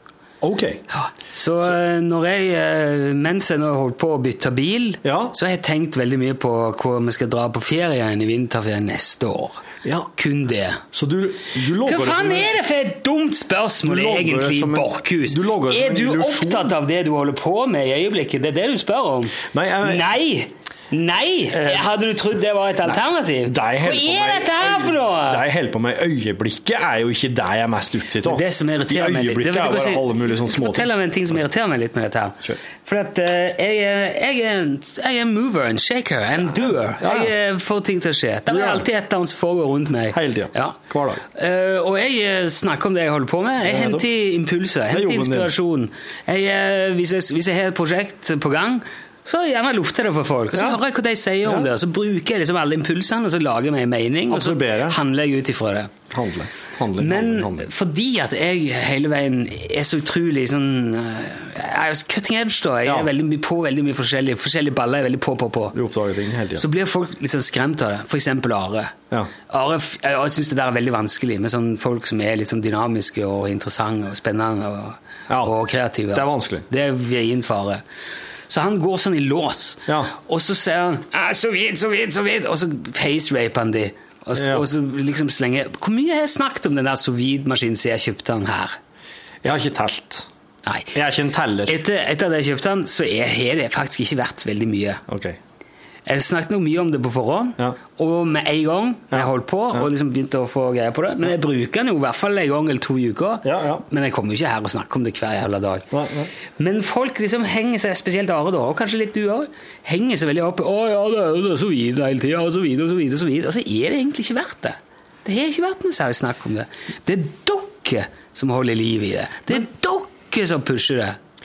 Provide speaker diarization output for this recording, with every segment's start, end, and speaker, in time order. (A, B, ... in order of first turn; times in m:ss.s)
0:00.4-0:00.8 A
0:00.9-0:10.8 B
0:05.0-0:05.3 A
0:09.8-0:10.1 A
0:10.9-0:12.6 A
0:11.8-0:25.4 B
0:13.8-0:16.7 A
0:19.4-0:20.1 A
0:21.5-0:21.9 A
0:22.8-0:30.9 A
0:28.2-0:40.8 B
0:37.0-0:37.3 A
0:38.5-0:38.8 A
0:40.1-0:41.2 A
0:41.3-0:55.9 B
0:43.6-0:44.1 A
0:44.9-0:45.5 A
0:50.5-0:50.8 A
0:51.4-0:51.7 A
0:54.3-0:55.0 A
0:56.1-0:57.7 A
0:57.0-1:05.8 B
1:02.8-1:03.1 A
1:05.7-1:06.6 A
1:06.6-1:08.9 B
1:09.5-1:17.8 B
1:15.3-1:15.5 A
1:16.1-1:16.7 A
1:18.5-1:28.8 B
1:19.9-1:20.1 A
1:24.3-1:24.6 A
1:29.4-1:30.3 A
1:30.6-1:30.9 B
1:30.9-1:31.8 A
1:31.6-1:35.0 B
1:35.1-1:35.4 A
1:36.0-1:45.9 B
1:39.1-1:39.9 A
1:43.4-1:43.8 A
1:45.9-1:46.3 A
1:46.6-2:01.2 B